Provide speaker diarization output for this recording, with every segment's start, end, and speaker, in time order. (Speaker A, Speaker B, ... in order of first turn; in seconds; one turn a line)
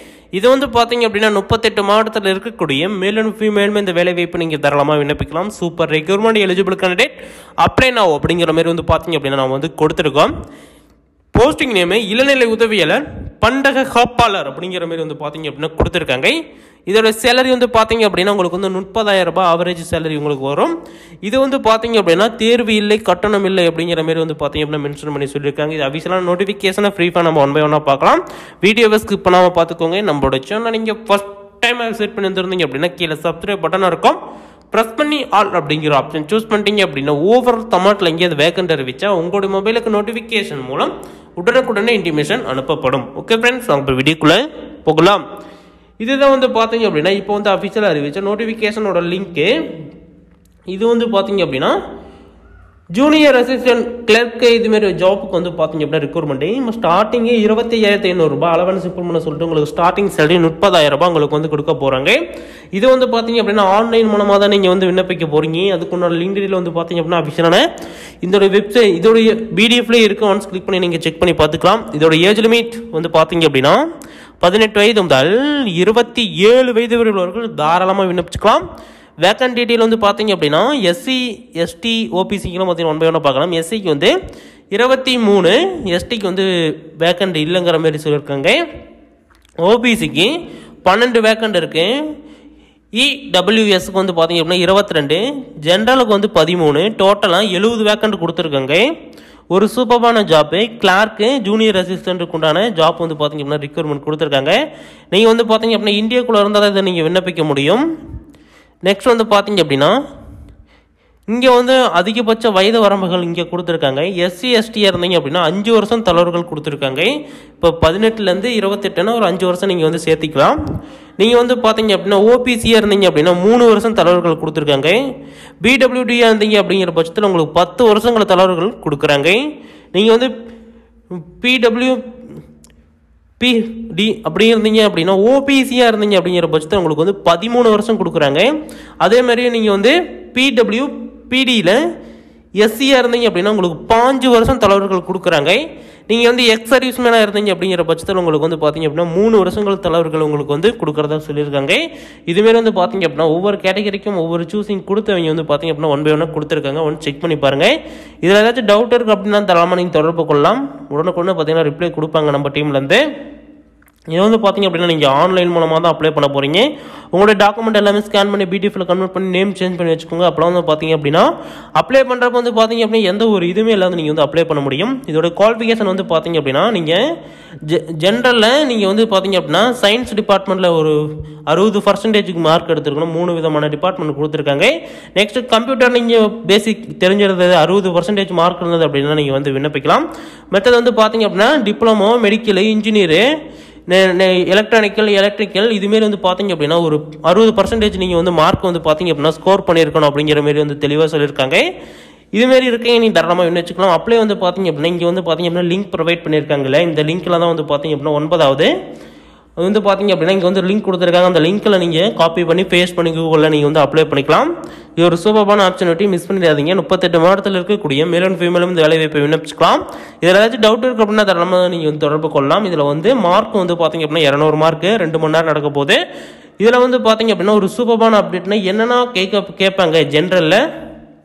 Speaker A: 0.4-7.1
Speaker A: 7.6-10.3
Speaker A: 11.3-16.4
Speaker A: 16.9-20.7
Speaker A: 21.2-34.2
Speaker A: 34.7-45.2
Speaker A: 46.0-49.5
Speaker A: 50.7-51.8
Speaker A: 53.0-62.2
Speaker A: 62.8-67.6
Speaker A: 68.2-73.8
Speaker A: 74.4-78.6
Speaker A: 79.2-84.1
Speaker A: 84.7-86.5
Speaker A: 87.0-88.6
Speaker A: 89.7-90.3
Speaker A: 90.8-91.9
Speaker A: 93.0-98.8
Speaker A: 99.5-104.5
Speaker A: 105.1-107.8
Speaker A: 108.9-109.9
Speaker A: 111.3-120.6
Speaker A: 121.2-125.0
Speaker A: 125.6-129.4
Speaker A: 129.9-130.3
Speaker A: 131.4-132.0
Speaker A: 133.4-138.5
Speaker A: 139.0-141.8
Speaker A: 142.6-163.0
Speaker A: 164.1-177.0
Speaker A: 177.7-180.9
Speaker A: 181.5-193.2
Speaker A: 193.9-201.6
Speaker A: 202.4-208.7
Speaker A: 209.6-214.5
Speaker A: 215.0-226.0
Speaker A: 226.6-230.6